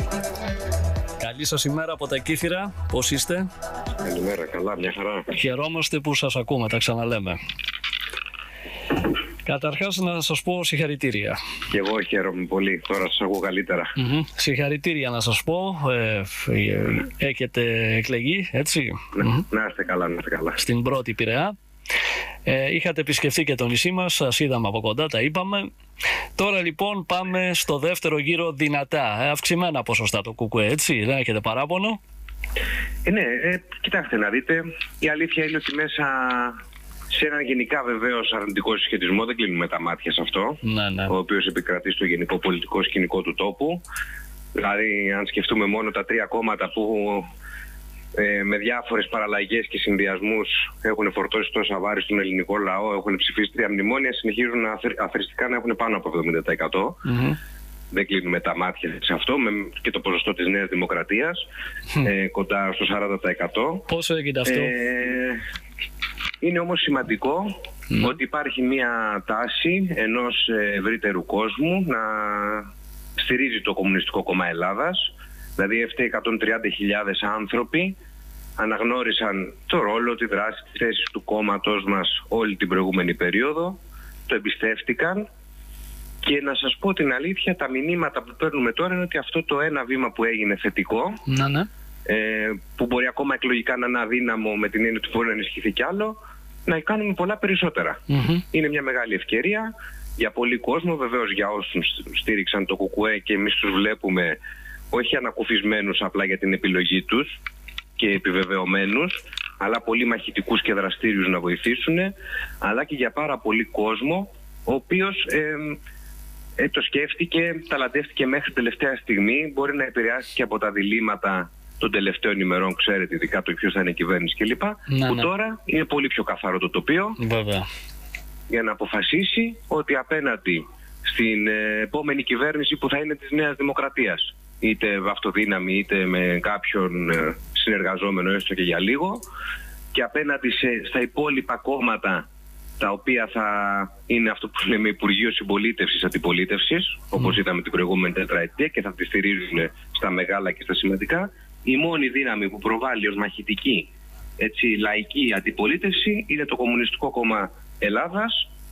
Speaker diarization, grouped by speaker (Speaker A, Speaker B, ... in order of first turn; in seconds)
Speaker A: 1.2-3.5, 5.3-7.4, 9.4-11.4, 14.0-19.4, 20.6-21.6, 22.5-25.7, 26.4-32.0, 40.6-41.1, 57.1-57.4, 63.9-64.7, 67.9-68.2, 91.3-91.7, 98.1-98.4, 124.9-125.3, 127.2-127.7
Speaker B: 4.0-5.3, 11.7-13.9, 19.1-20.6, 33.1-36.6, 37.1-43.8, 44.5-47.3, 48.1-57.0, 57.9-61.4, 62.0-63.9, 64.5-65.4, 66.4-78.0, 78.6-85.3, 86.2-91.2, 92.1-98.0, 98.5-104.4, 104.9-107.4, 108.0-115.8, 116.6-127.2, 128.5-139.2, 139.9-142.2, 142.8-158.5